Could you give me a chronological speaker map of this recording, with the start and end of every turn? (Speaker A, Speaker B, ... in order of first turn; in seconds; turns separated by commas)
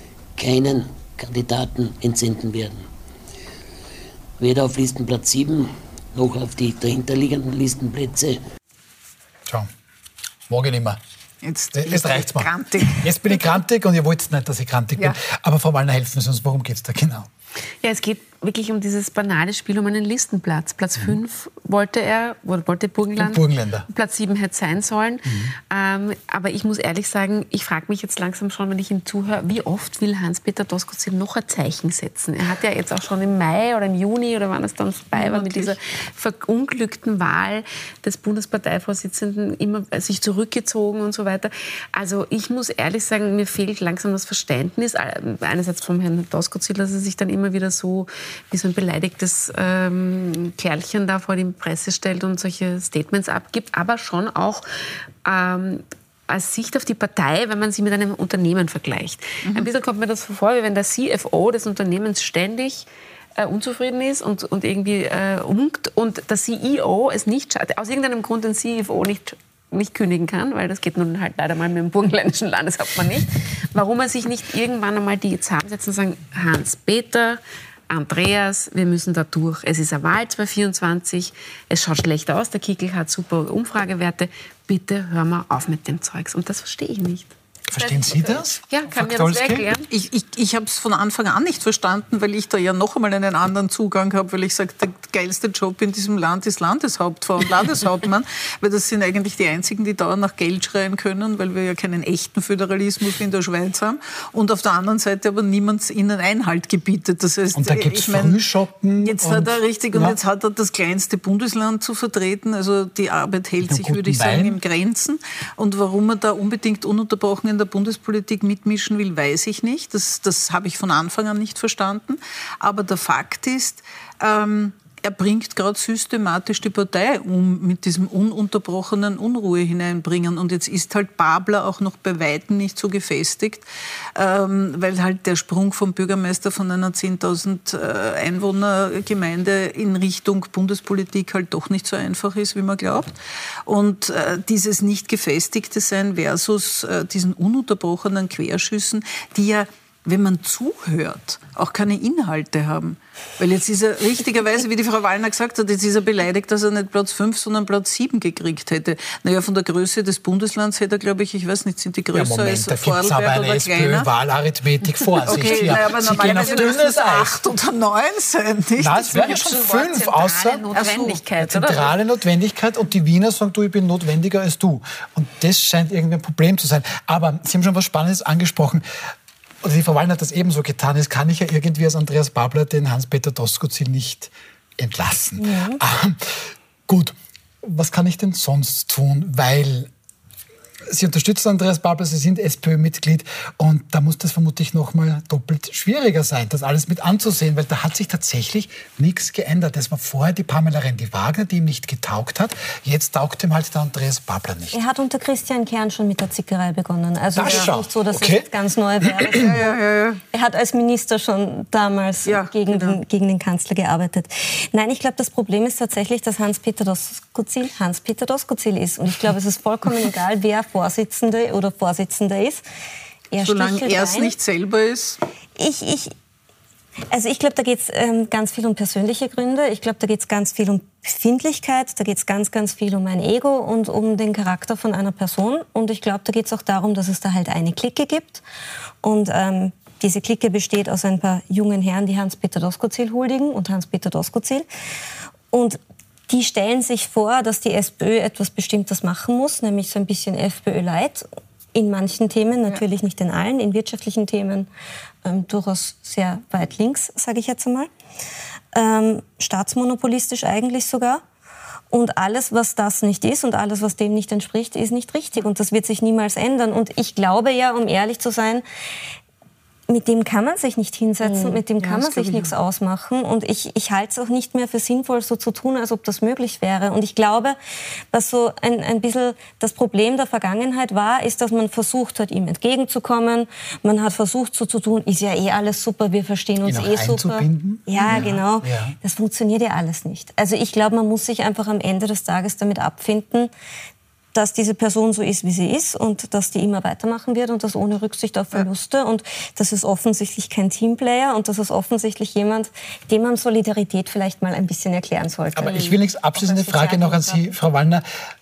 Speaker A: 0.4-2.9, Speaker A: 4.4-8.4, Speaker B: 10.5-11.0, Speaker C: 11.4-13.1, Speaker B: 11.7-17.3, Speaker D: 17.8-54.6, Speaker B: 23.2-23.9, Speaker B: 25.3-25.5, Speaker C: 35.1-35.8, Speaker D: 55.2-62.9, Speaker C: 59.4-59.7, Speaker D: 63.4-89.9, Speaker B: 87.7-89.7, Speaker C: 89.9-108.4, Speaker B: 107.5-110.2, Speaker C: 109.0-143.1, Speaker B: 113.6-114.6, Speaker C: 143.7-164.1, Speaker B: 162.1-167.4, Speaker C: 165.2-169.4, Speaker D: 165.4-165.7, Speaker B: 168.8-170.6, Speaker D: 169.1-171.9, Speaker C: 170.7-171.2, Speaker B: 171.4-178.8, Speaker B: 179.6-189.9, Speaker E: 185.4-185.8, Speaker B: 190.9-204.8, Speaker E: 204.7-209.7, Speaker B: 207.4-208.5, Speaker C: 207.4-207.7, Speaker B: 209.0-209.5, Speaker C: 209.4-210.2, Speaker E: 210.3-222.6, Speaker C: 212.3-213.0, Speaker E: 223.3-224.3, Speaker C: 223.4-225.2, Speaker E: 225.6-226.1, Speaker E: 227.1-238.4, Speaker E: 239.0-244.7, Speaker E: 245.5-254.7, Speaker E: 255.2-257.9, Speaker E: 258.7-261.2, Speaker E: 261.9-268.6, Speaker E: 269.9-277.6, Speaker C: 271.2-272.5, Speaker E: 278.1-293.5, Speaker B: 286.6-288.9, Speaker E: 294.3-307.6, Speaker B: 305.6-308.1